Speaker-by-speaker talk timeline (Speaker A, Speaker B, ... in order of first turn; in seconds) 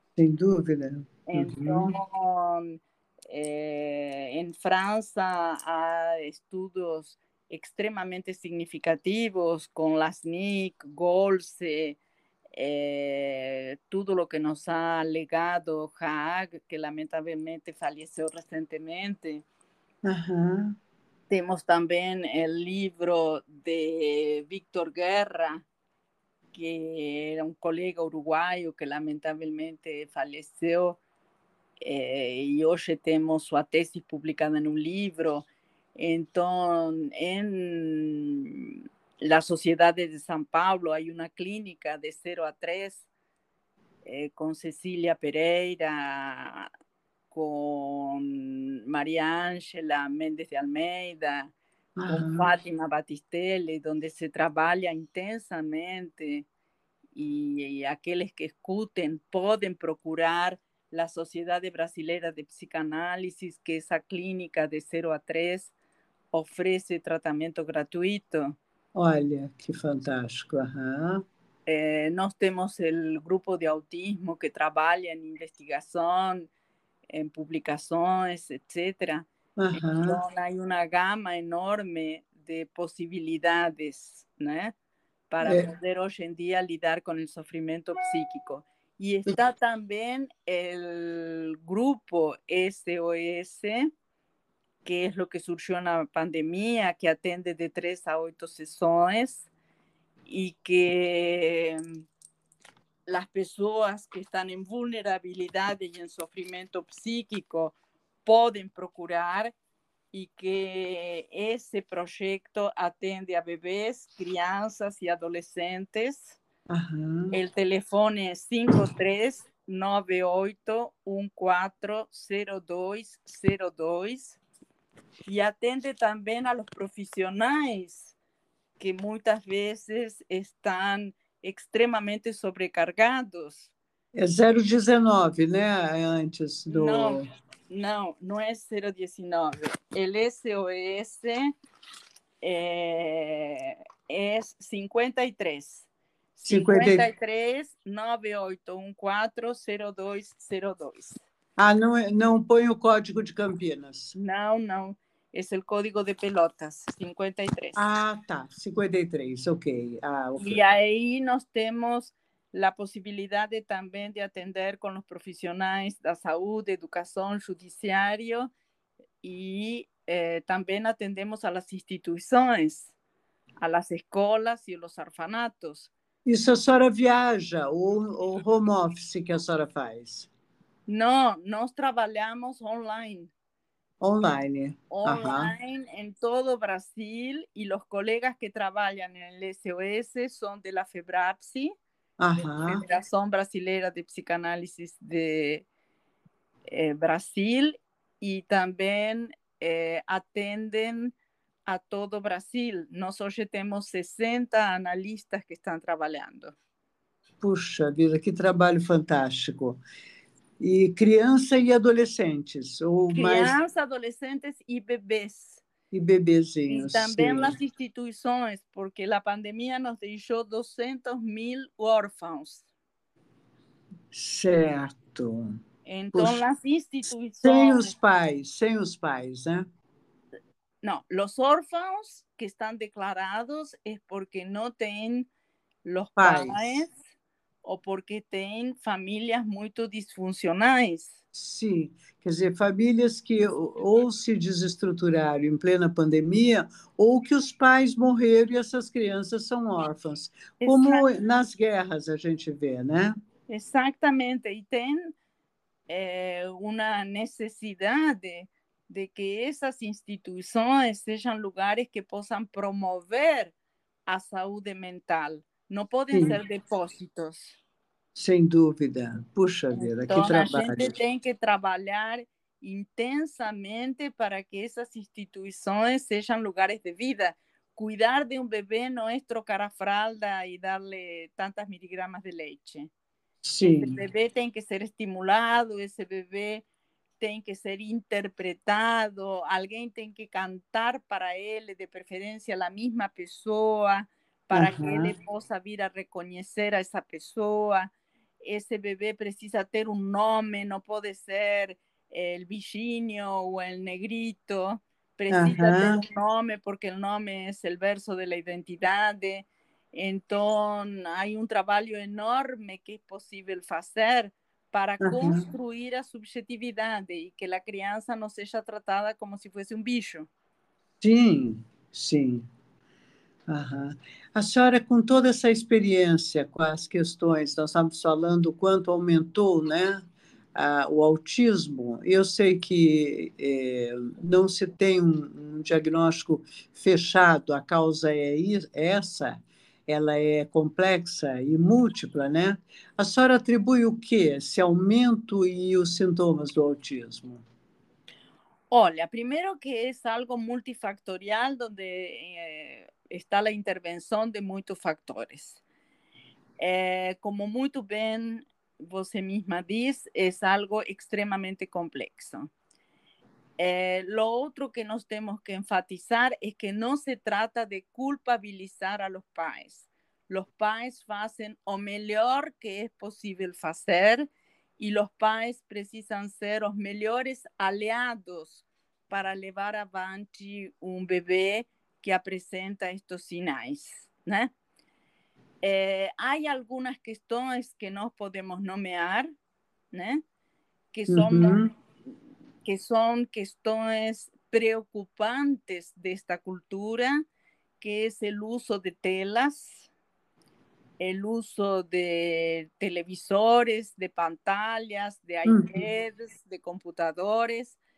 Speaker A: 0.2-1.9, 20.0-20.7, 52.0-52.5, 68.9-71.2, 79.6-80.2, 85.4-85.7, 116.7-117.4, 134.1-137.2, 146.5-147.0, 151.6-154.1, 157.8-160.6, 176.2-180.3, 184.0-185.5, 192.2-192.8, 207.4-209.8, 210.6-213.5, 215.9-217.6, 224.1-225.6, 226.1-226.4, 227.4-229.6, 236.2-236.8, 241.3-253.1, 268.1-270.9, 283.4-284.0, 294.5-295.1, 305.3-306.0, 315.0-315.5, 321.0-322.5, 323.5-347.4, 391.1-391.7, 405.4-405.8
Speaker B: 1.3-12.0, 12.5-19.4, 21.3-25.6, 26.5-31.0, 31.8-43.1, 44.0-46.7, 47.3-51.5, 52.0-56.5, 57.1-65.7, 66.3-68.6, 71.7-76.5, 77.1-84.7, 85.3-93.9, 94.8-99.5, 100.3-102.0, 103.1-109.5, 110.1-116.4, 117.3-124.4, 125.3-128.1, 128.8-133.7, 136.7-141.5, 142.4-151.2, 154.1-157.8, 160.4-168.5, 169.2-172.9, 173.6-175.9, 180.9-183.3, 184.9-191.7, 192.6-195.7, 196.7-201.1, 201.7-206.5, 213.1-215.6, 216.7-222.7, 225.8-227.9, 230.8-235.3, 235.8-236.9, 237.6-241.2, 250.6-251.2, 253.5-255.1, 255.9-263.5, 264.1-267.6, 269.7-282.9, 283.6-286.6, 287.2-297.9, 298.4-320.3, 348.7-355.6, 356.6-362.5, 363.6-384.5, 385.6-389.3, 389.9-390.2, 390.9-391.6, 392.6-397.2, 397.8-399.9, 401.0-407.8